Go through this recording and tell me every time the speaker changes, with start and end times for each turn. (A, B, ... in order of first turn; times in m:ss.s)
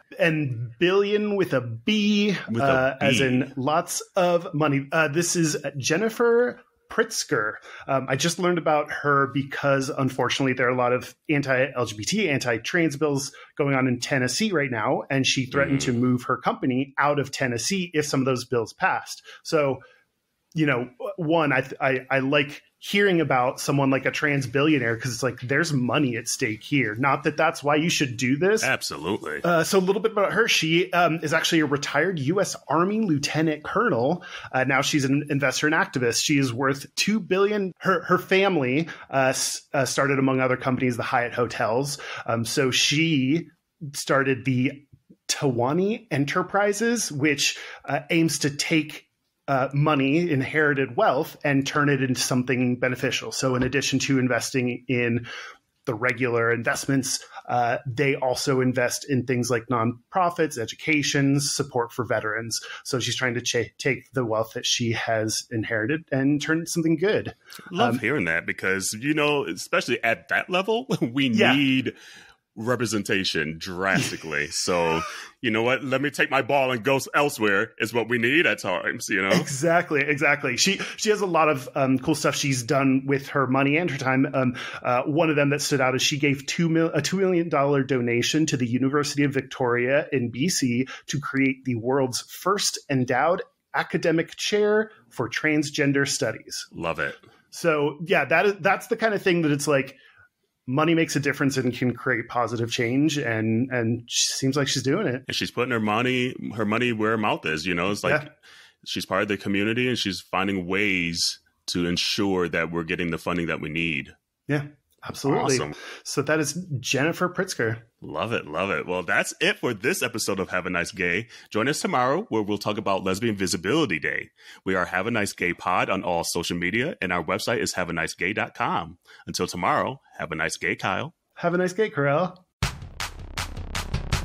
0:00.2-0:19.8 A
0:02.5-0:03.5 B
0:15.5-0:15.9 B
0:20.5-0:28.7 A
0:28.6-0:29.4 B
0:29.4-0:55.2 A
0:55.8-1:08.0 A
1:07.7-1:11.9 B
1:11.3-1:11.6 A
1:12.6-1:19.5 B
1:19.3-1:36.7 A
1:36.7-1:37.2 B
1:37.5-1:40.0 A
1:40.7-1:45.2 A
1:45.3-1:48.3 B
1:48.8-1:54.1 B
1:54.5-1:57.8 A
1:55.3-1:55.8 B
1:58.0-2:11.1 B
2:11.4-2:12.4 A